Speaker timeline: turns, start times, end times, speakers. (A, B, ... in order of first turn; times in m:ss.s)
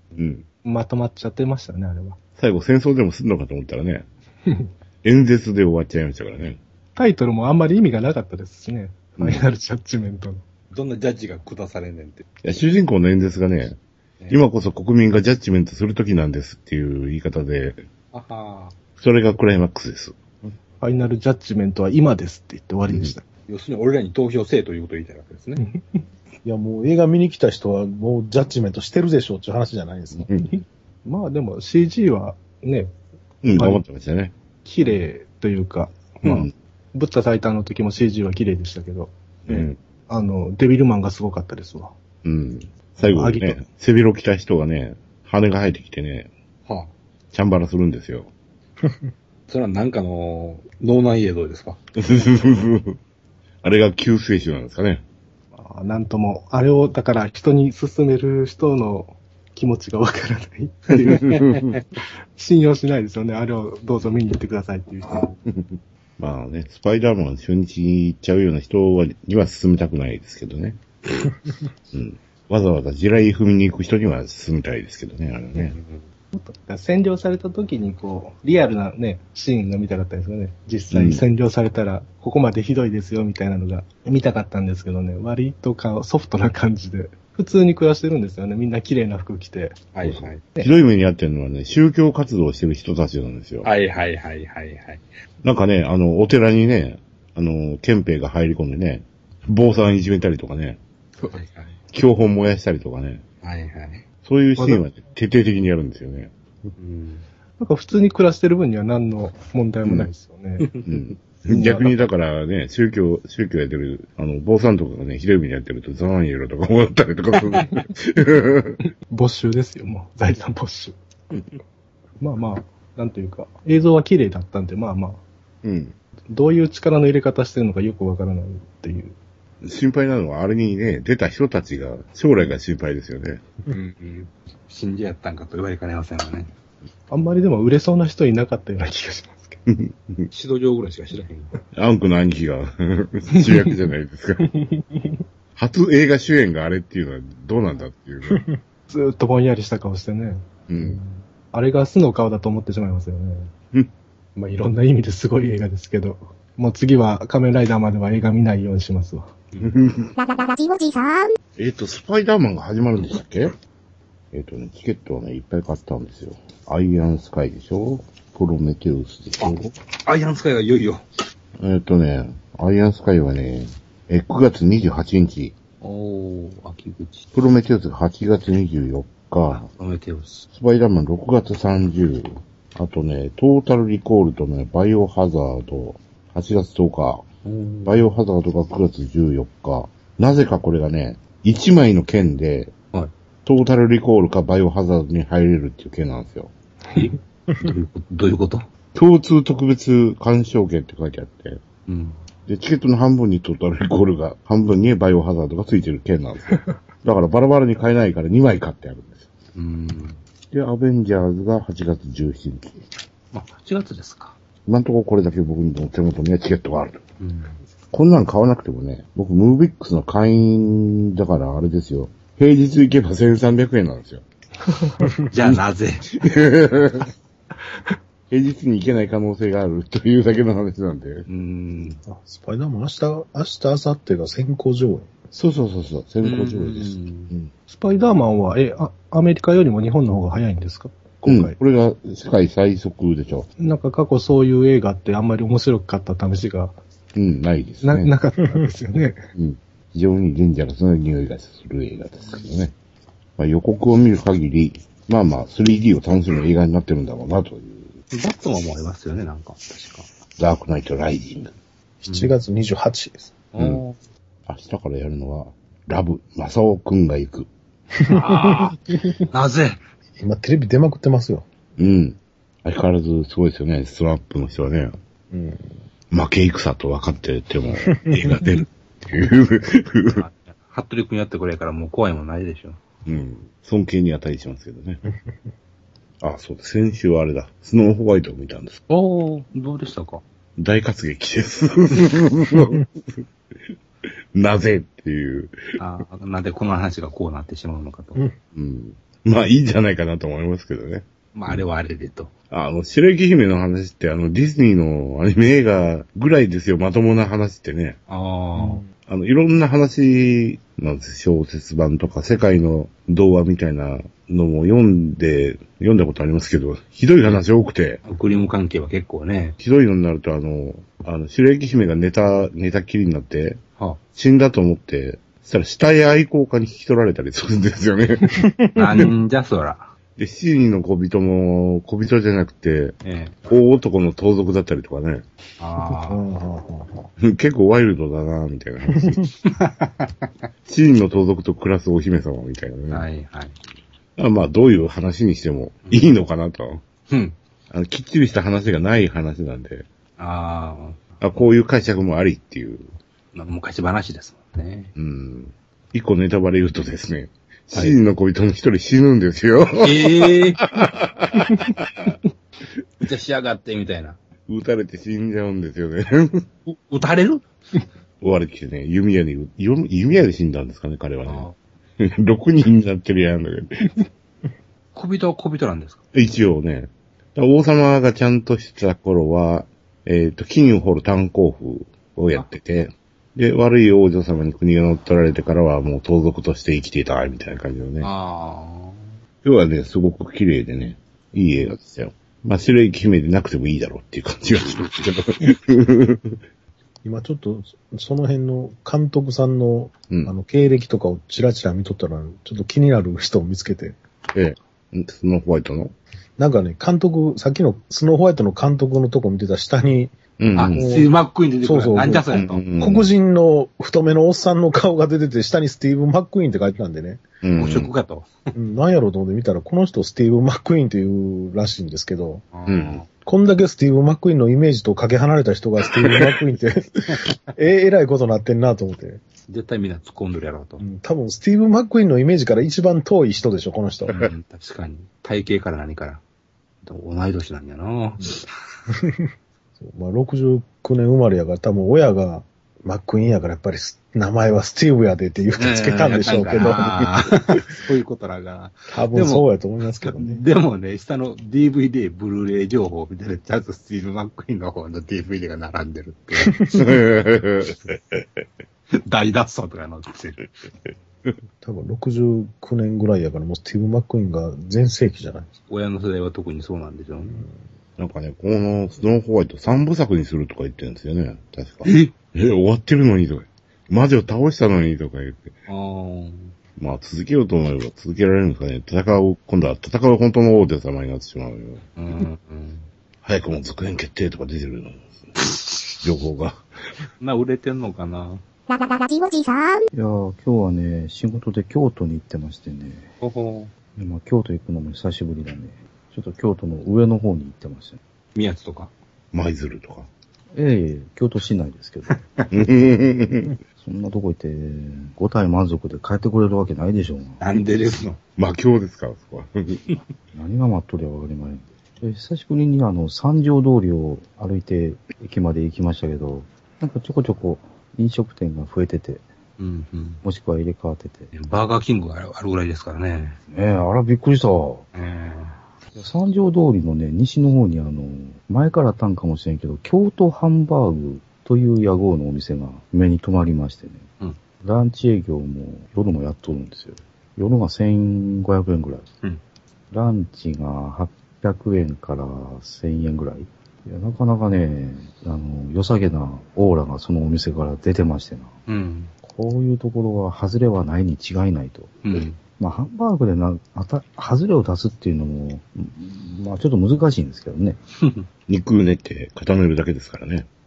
0:00.1-0:00.4 A
0:00.6-0:02.2 B
0:02.4-0:04.0 A
0:05.0-0:06.6 A
0:07.0-0:10.4 B
0:09.2-0:09.4 A
0:10.7-0:12.2 C
0:12.4-0:13.8 A
0:14.3-0:17.8 A
0:18.1-0:18.8 C
0:19.0-0:20.2 A
0:20.8-0:23.2 B
0:22.9-0:23.1 A
0:23.5-0:25.6 C
0:25.6-0:26.0 B
0:26.4-0:30.3 D
0:30.1-0:30.5 A
0:30.5-0:32.9 B
0:33.4-0:34.3 A
0:33.5-0:33.8 B
0:34.6-0:41.9 B
0:36.2-0:36.5 A
0:39.5-0:39.8 A
0:42.2-0:46.3 A
0:43.0-0:43.6 B
0:46.7-0:46.9 C
0:47.3-0:48.3 A
0:49.5-0:51.8 C
0:52.0-0:53.0 A
0:53.6-0:55.0 A
0:55.5-1:01.2 B
1:01.0-1:01.8 A
1:01.1-1:01.6 C
1:02.4-1:05.3 B
1:05.5-1:10.8 A
1:11.9-1:15.8 A
1:15.6-1:16.0 C
1:16.3-1:29.9 B
1:20.9-1:21.2 A
1:29.9-1:30.4 C
1:30.0-1:33.7 A
1:33.6-1:35.0 C
1:35.4-1:40.8 A
1:41.2-1:41.8 C
1:41.9-1:43.2 A
1:43.4-1:44.0 C
1:44.2-1:46.3 A
1:44.6-1:44.8 B
1:46.8-1:47.3 C
1:47.6-1:50.7 B
1:49.8-1:50.1 A
1:50.8-1:58.8 A
1:51.5-1:52.0 B
1:59.1-2:01.0 B
2:02.2-2:05.2 B
2:05.6-2:05.9 A
2:06.3-2:09.2 B
2:09.6-2:13.4 A
2:13.7-2:16.5 C
2:17.1-2:19.6 B
2:19.7-2:20.3 A
2:20.3-2:21.5 C
2:21.7-2:24.5 A
2:24.4-2:25.2 B
2:25.6-2:28.4 A
2:28.9-2:33.5 B
2:30.7-2:31.0 A
2:34.4-2:39.3 B
2:39.6-2:40.1 A
2:40.2-2:41.4 E
2:41.6-2:43.5 A
2:44.3-2:49.7 A
2:49.4-2:51.0 C
2:51.6-2:55.5 A
2:55.8-2:57.3 C
2:57.3-2:59.7 A
2:59.5-3:00.5 C
3:00.5-3:07.2 A
3:07.4-3:08.1 C
3:07.8-3:12.7 A
3:13.4-3:16.5 A
3:16.9-3:18.7 C
3:18.9-3:21.6 A
3:21.9-3:22.2 C
3:22.5-3:29.2 A
3:29.5-3:30.2 C
3:30.5-3:32.8 A
3:33.3-3:34.4 C
3:34.6-3:37.0 A
3:37.2-3:37.6 C
3:37.9-3:44.2 A
3:45.3-3:46.2 C
3:46.2-3:47.1 A
3:48.3-3:51.3 A
3:51.3-3:52.0 C
3:52.1-3:55.1 D
3:55.3-3:57.5 A
3:56.2-3:57.3 C
3:57.7-4:01.6 B
4:01.2-4:03.5 A
4:03.6-4:06.8 B
4:07.1-4:08.1 A
4:07.8-4:09.3 B
4:09.3-4:12.7 A
4:13.4-4:17.9 A
4:18.1-4:20.1 C
4:20.4-4:21.5 A
4:22.0-4:22.3 C
4:22.0-4:23.3 D
4:23.5-4:24.0 C
4:23.6-4:23.8 A
4:24.5-4:27.5 A
4:28.0-4:29.2 D
4:28.1-4:29.8 C
4:30.2-4:31.5 D
4:31.8-4:35.0 A
4:35.3-4:35.7 D
4:36.1-4:40.2 A
4:40.1-4:42.8 C
4:43.0-4:45.0 A
4:46.2-4:48.8 A
4:48.9-4:50.2 C
4:50.6-4:52.9 A
4:54.3-4:55.5 A
4:55.8-4:58.2 C
4:58.5-5:01.6 A
5:01.3-5:02.3 C
5:02.5-5:08.0 A
5:08.1-5:08.8 C
5:08.6-5:08.8 D
5:09.1-5:18.0 A
5:18.0-5:19.6 C
5:19.6-5:23.6 A
5:24.1-5:28.4 A
5:28.3-5:29.1 D
5:28.7-5:29.9 C
5:30.2-5:32.9 A
5:33.0-5:33.5 C
5:33.5-5:35.2 A
5:35.6-5:36.2 C
5:35.9-5:37.1 D
5:37.2-5:39.2 A
5:39.0-5:39.2 D
5:39.4-5:40.3 C
5:40.7-5:43.0 A
5:42.9-5:43.6 C
5:44.2-5:46.8 A
5:45.8-5:46.1 C
5:47.1-5:47.4 C
5:47.7-5:49.8 A
5:50.2-5:51.1 C
5:51.2-5:52.9 A
5:53.3-5:54.9 C
5:55.0-6:02.2 A
5:59.8-6:00.6 C
6:03.0-6:04.2 C
6:04.5-6:06.4 A
6:06.7-6:07.8 C
6:08.2-6:11.5 A
6:11.2-6:11.6 C
6:12.0-6:13.9 A
6:14.9-6:16.0 C
6:16.1-6:28.1 A
6:28.0-6:29.1 C
6:29.4-6:36.4 A
6:37.0-6:44.0 D
6:44.3-6:45.9 A
6:46.4-6:57.2 D
6:50.4-6:50.9 A
6:50.5-6:52.6 C
6:52.3-6:53.1 A
6:57.4-6:57.9 A
6:57.6-6:58.5 C
6:58.5-7:02.4 D
7:02.5-7:03.1 C
7:02.7-7:03.0 A
7:03.2-7:09.2 D
7:09.5-7:10.8 C
7:10.8-7:14.1 D
7:14.1-7:16.2 C
7:16.8-7:18.5 C
7:19.8-7:27.0 D
7:25.6-7:29.4 C
7:28.9-7:30.4 D
7:30.0-7:36.8 C
7:36.7-7:37.8 A
7:39.0-7:40.5 C
7:41.6-7:45.5 D
7:45.7-7:47.4 C
7:48.0-7:55.5 A
7:51.8-7:52.1 C
7:55.7-7:56.5 C
7:56.8-8:01.8 A
8:02.0-8:02.9 C
8:03.2-8:06.6 A
8:07.2-8:08.4 C
8:08.7-8:09.8 E
8:09.9-8:13.1 F
8:13.2-8:13.7 C
8:14.0-8:18.0 F
8:18.3-8:18.9 C
8:19.3-8:20.1 A
8:20.5-8:22.2 F
8:22.1-8:22.5 C
8:22.5-8:23.6 A
8:23.8-8:27.4 F
8:27.4-8:28.2 C
8:28.4-8:29.8 A
8:30.3-8:39.2 F
8:39.6-8:40.2 C
8:40.2-8:41.3 F
8:41.3-8:43.4 C
8:43.5-8:44.8 F
8:44.9-8:45.6 C
8:45.9-8:54.0 F
8:54.6-8:59.0 F
8:59.9-9:08.5 F
9:08.7-9:09.1 C
9:09.2-9:12.0 F
9:12.0-9:12.4 C
9:12.6-9:17.8 F
9:18.0-9:18.2 C
9:18.5-9:20.5 A